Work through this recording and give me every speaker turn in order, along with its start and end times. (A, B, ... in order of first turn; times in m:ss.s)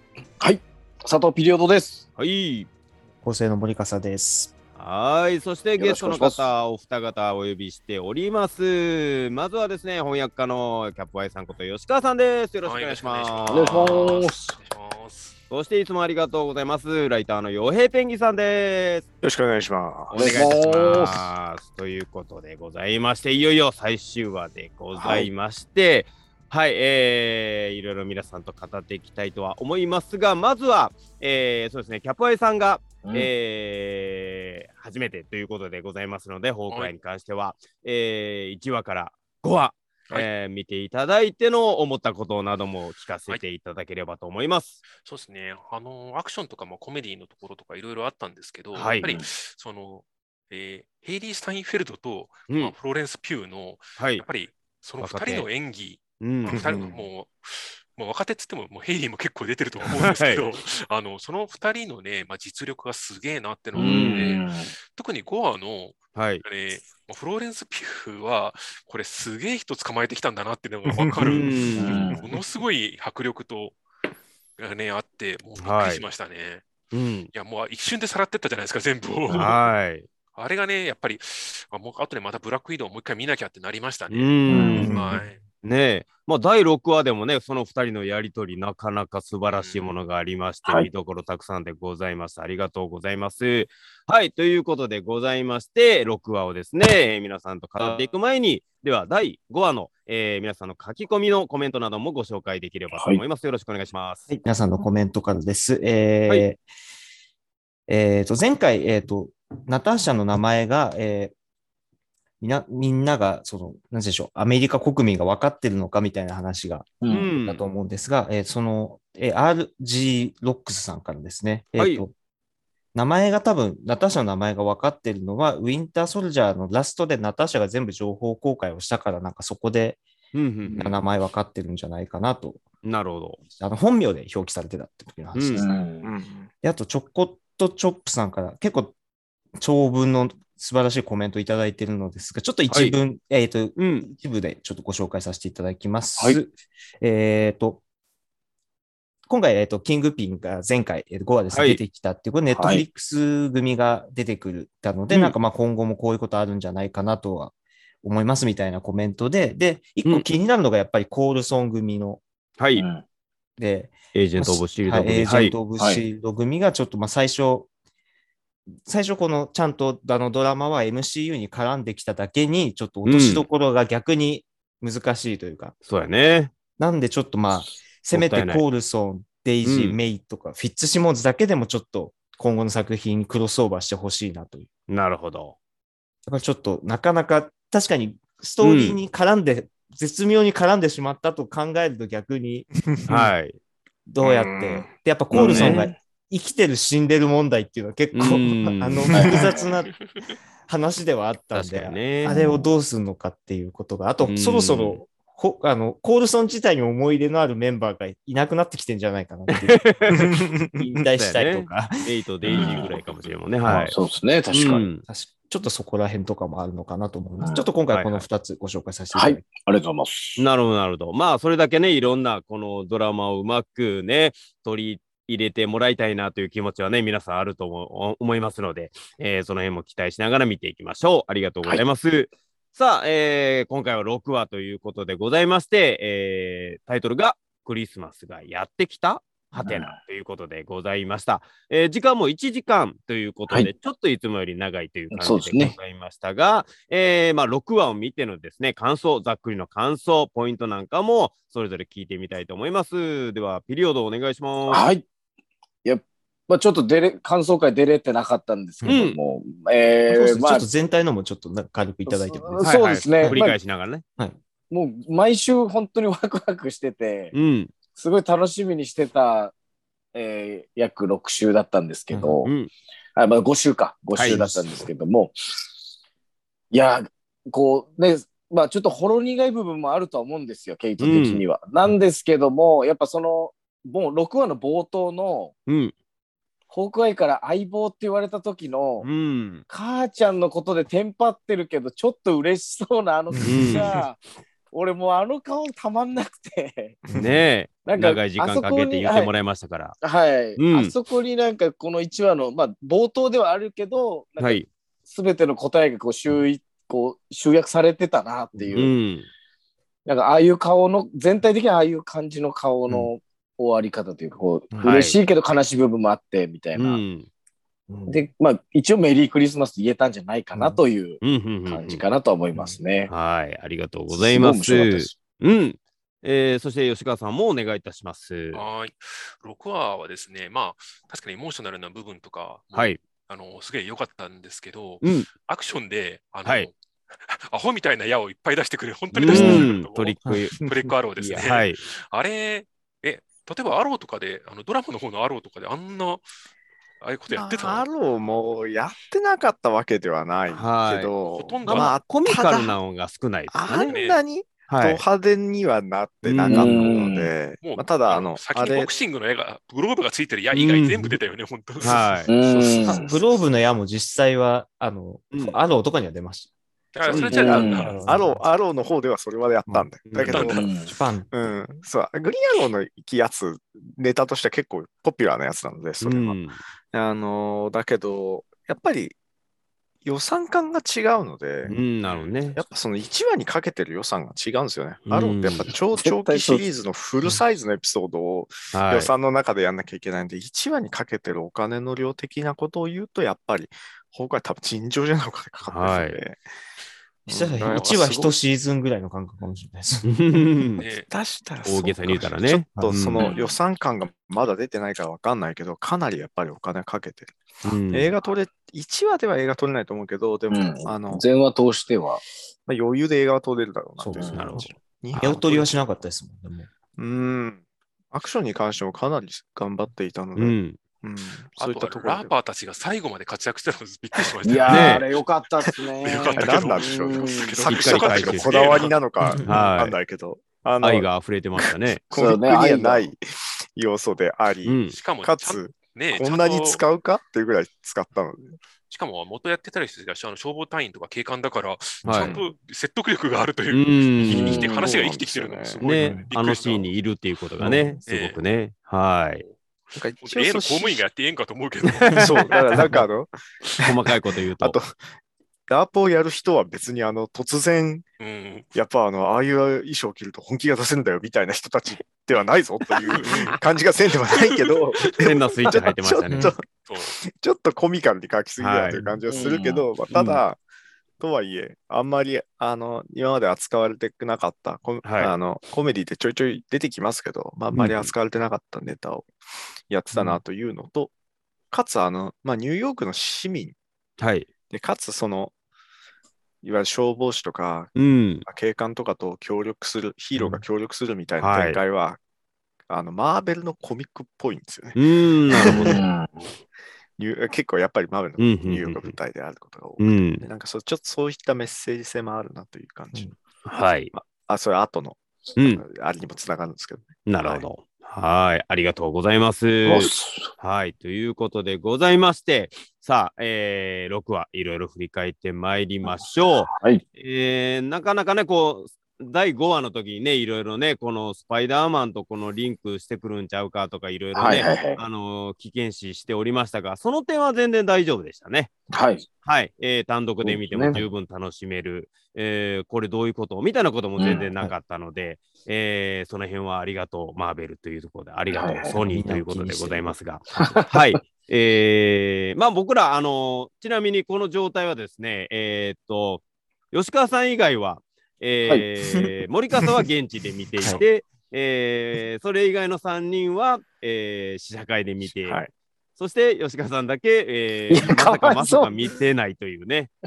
0:00.4-0:02.1 A
0:02.2-0:02.7 B
0:03.2-0:04.5 C
0:04.8-0:14.2 B
0:05.8-0:06.5 A
0:12.6-0:15.4 D
0:13.5-0:14.6 A
0:15.5-0:19.0 B
0:19.2-0:20.3 E
0:20.1-0:44.8 B
0:20.1-0:21.3 A
0:25.0-0:25.3 A
0:33.0-0:33.3 A
0:45.0-1:13.8 D
0:48.7-0:49.2 B
0:49.0-0:49.3 A
0:52.5-0:52.8 B
0:54.0-0:54.2 B
0:55.0-0:55.5 B
0:56.2-0:56.6 B
0:56.5-0:57.0 E
0:59.9-1:00.4 B
1:03.7-1:04.7 A
1:03.8-1:04.3 B
1:06.2-1:06.4 B
1:10.9-1:11.2 E
1:11.2-1:12.1 B
1:11.8-1:12.3 A
1:14.6-1:16.7 D
1:15.6-1:16.0 B
1:16.9-1:17.3 B
1:17.3-1:19.7 D
1:19.3-1:20.1 B
1:20.3-1:25.4 D
1:24.1-1:25.0 B
1:24.5-1:24.9 A
1:24.8-1:25.2 C
1:25.6-1:44.3 B
1:29.5-1:29.9 D
1:42.9-1:43.2 A
1:44.3-1:46.6 C
1:47.9-1:51.3 C
1:52.4-2:02.1 C
1:57.0-1:57.4 A
1:57.1-1:57.6 B
2:01.8-2:02.0 B
2:02.9-2:10.0 C
2:10.3-2:11.0 B
2:10.6-2:12.6 C
2:12.8-2:13.4 B
2:13.6-2:15.7 C
2:15.3-2:15.7 B
2:15.6-2:16.1 A
2:16.0-2:16.5 E
2:16.6-2:19.0 C
2:19.6-2:27.8 C
2:22.7-2:23.0 B
2:23.8-2:24.1 B
2:29.3-2:42.2 C
2:31.5-2:31.8 B
2:32.5-2:32.8 A
2:35.1-2:35.4 B
2:42.6-2:42.9 B
2:42.8-2:43.0 A
2:43.6-2:47.7 C
2:44.1-2:45.6 B
2:45.8-2:46.0 A
2:48.8-2:55.8 C
2:53.1-2:53.5 B
2:55.8-2:56.5 B
2:56.8-3:04.7 C
2:58.1-2:58.6 B
2:59.6-3:00.0 B
3:04.9-3:05.6 B
3:06.3-3:13.3 C
3:08.6-3:09.0 B
3:13.1-3:13.6 B
3:14.1-3:20.0 C
3:14.2-3:14.9 E
3:15.3-3:16.0 A
3:15.4-3:15.9 B
3:18.1-3:19.2 B
3:19.1-3:19.8 A
3:20.7-3:32.1 C
3:21.5-3:22.4 B
3:22.3-3:22.6 A
3:24.2-3:25.0 B
3:29.5-3:34.0 B
3:30.1-3:30.8 E
3:32.5-3:32.9 A
3:33.6-3:34.0 C
3:33.8-3:34.9 A
3:34.5-3:35.0 B
3:35.0-3:39.5 C
3:37.4-3:37.7 A
3:37.9-3:38.3 B
3:39.1-3:40.5 A
3:40.4-4:14.9 B
3:59.6-4:00.0 A
4:05.1-4:05.8 A
4:14.7-4:15.0 A
4:15.8-4:20.7 A
4:18.8-4:19.1 C
4:18.8-4:19.2 B
4:20.1-4:23.4 C
4:22.1-4:23.6 A
4:22.6-4:24.0 B
4:24.7-4:27.3 A
4:27.3-4:27.7 B
4:27.9-4:29.5 A
4:30.1-4:32.5 A
4:32.1-4:32.4 C
4:32.4-4:32.7 B
4:33.2-4:35.4 A
4:34.2-4:34.6 B
4:36.7-4:45.5 A
4:41.0-4:41.5 B
4:45.7-4:45.9 B
4:46.7-4:49.1 A
4:49.0-4:49.6 B
4:49.7-4:57.0 A
4:53.3-4:53.6 C
4:53.4-4:54.0 B
4:57.2-5:00.0 B
4:57.8-4:59.3 A
5:00.0-5:08.9 A
5:00.6-5:00.9 B
5:04.4-5:04.7 B
5:08.7-5:09.3 B
5:10.1-5:17.0 A
5:14.7-5:15.0 C
5:14.8-5:15.2 B
5:16.8-5:17.3 B
5:17.9-5:18.3 C
5:18.1-5:23.1 A
5:20.5-5:20.8 C
5:21.2-5:22.1 B
5:22.5-5:22.8 C
5:23.1-5:28.6 B
5:24.1-5:25.2 A
5:28.5-5:36.8 D
5:32.7-5:33.0 B
5:35.0-5:35.3 B
5:37.3-5:46.2 D
5:39.2-5:40.6 B
5:39.3-5:39.7 C
5:40.3-5:40.6 C
5:41.2-5:41.8 B
5:47.0-5:47.9 D
5:47.3-5:52.8 E
5:50.5-5:51.1 B
5:51.3-5:51.9 D
5:51.7-5:53.9 B
5:53.5-5:59.0 E
5:53.9-5:54.2 D
5:54.7-5:55.0 B
5:56.2-5:57.1 B
5:56.5-5:57.3 A
5:57.6-6:02.9 D
6:00.5-6:01.2 B
6:01.8-6:02.3 B
6:02.3-6:03.2 A
6:02.6-6:06.5 C
6:02.7-6:03.0 E
6:05.3-6:05.6 B
6:06.9-6:08.0 D
6:07.0-6:10.7 E
6:07.1-6:07.4 B
6:07.3-6:08.0 A
6:07.6-6:08.4 C
6:10.1-6:10.6 B
6:10.3-6:10.7 D
6:10.5-6:10.9 A
6:10.8-6:11.5 C
6:11.3-6:16.4 E
6:16.0-6:16.6 B
6:16.9-6:19.2 E
6:20.0-6:21.7 E
6:21.7-6:22.6 B
6:22.0-6:22.5 D
6:22.6-6:36.4 E
6:25.1-6:25.7 B
6:26.0-6:26.6 A
6:28.7-6:29.1 B
6:35.7-6:36.2 B
6:37.3-6:38.3 E
6:37.3-6:40.8 C
6:37.6-6:38.2 D
6:40.0-6:40.9 B
6:40.8-6:41.1 D
6:41.1-6:47.4 E
6:41.6-6:43.3 B
6:47.6-6:48.1 B
6:47.9-6:51.3 E
6:50.5-6:52.2 A
6:52.7-6:55.8 E
6:54.0-6:56.7 C
6:54.2-6:54.5 A
6:54.3-6:54.7 B
6:57.0-6:57.6 E
6:58.1-7:02.3 E
7:00.4-7:00.8 B
7:01.6-7:05.2 D
7:04.4-7:07.6 A
7:04.7-7:05.1 B
7:05.6-7:11.1 E
7:06.0-7:09.0 D
7:07.7-7:08.9 B
7:09.2-7:09.6 C
7:09.4-7:10.0 B
7:10.8-7:12.0 B
7:11.6-7:13.2 E
7:12.1-7:13.1 A
7:13.8-7:18.6 E
7:14.6-7:15.0 B
7:14.9-7:16.8 D
7:18.9-7:26.9 D
7:22.0-7:22.4 C
7:22.0-7:22.4 B
7:23.7-7:24.6 B
7:24.2-7:24.9 A
7:24.3-7:26.3 E
7:25.8-7:29.4 B
7:27.6-7:28.0 C
7:28.1-7:28.4 D
7:30.0-7:31.0 E
7:30.2-7:32.8 D
7:31.9-7:33.0 B
7:32.1-7:33.9 E
7:33.8-7:34.8 B
7:34.6-7:35.0 E
7:35.7-7:38.1 E
7:38.2-7:38.7 D
7:38.7-7:50.6 E
7:43.1-7:43.6 D
7:44.3-7:44.7 D
7:45.2-7:46.5 B
7:46.9-7:47.2 D
7:48.6-7:49.0 B
7:48.9-7:49.2 C
7:49.3-7:49.8 A
7:50.1-7:50.4 B
7:51.2-7:59.4 E
7:55.0-7:55.3 B
7:57.7-7:58.1 B
7:59.9-8:01.1 E
8:00.1-8:00.4 C
8:01.7-8:03.8 E
8:04.2-8:04.5 B
8:04.7-8:05.5 E
8:06.6-8:12.2 E
8:08.0-8:08.4 B
8:10.4-8:10.6 C
8:11.4-8:11.8 B
8:12.9-8:15.0 E
8:15.0-8:16.0 B
8:15.5-8:16.5 A
8:15.7-8:16.0 E
8:17.2-8:23.3 E
8:18.4-8:19.2 B
8:20.0-8:20.4 B
8:23.6-8:24.1 B
8:24.1-8:27.7 E
8:25.6-8:25.8 B
8:27.3-8:48.7 B
8:29.9-8:30.5 A
8:36.0-8:37.0 A
8:44.4-8:45.0 A
8:48.9-8:49.3 A
8:49.4-9:15.6 B
8:50.4-8:51.1 A
8:54.2-8:54.5 A
8:58.5-8:59.0 A
8:59.1-9:00.2 C
9:00.6-9:01.2 A
9:10.8-9:11.0 C
9:15.2-9:15.7 E
9:16.2-9:20.1 B
9:17.9-9:19.0 A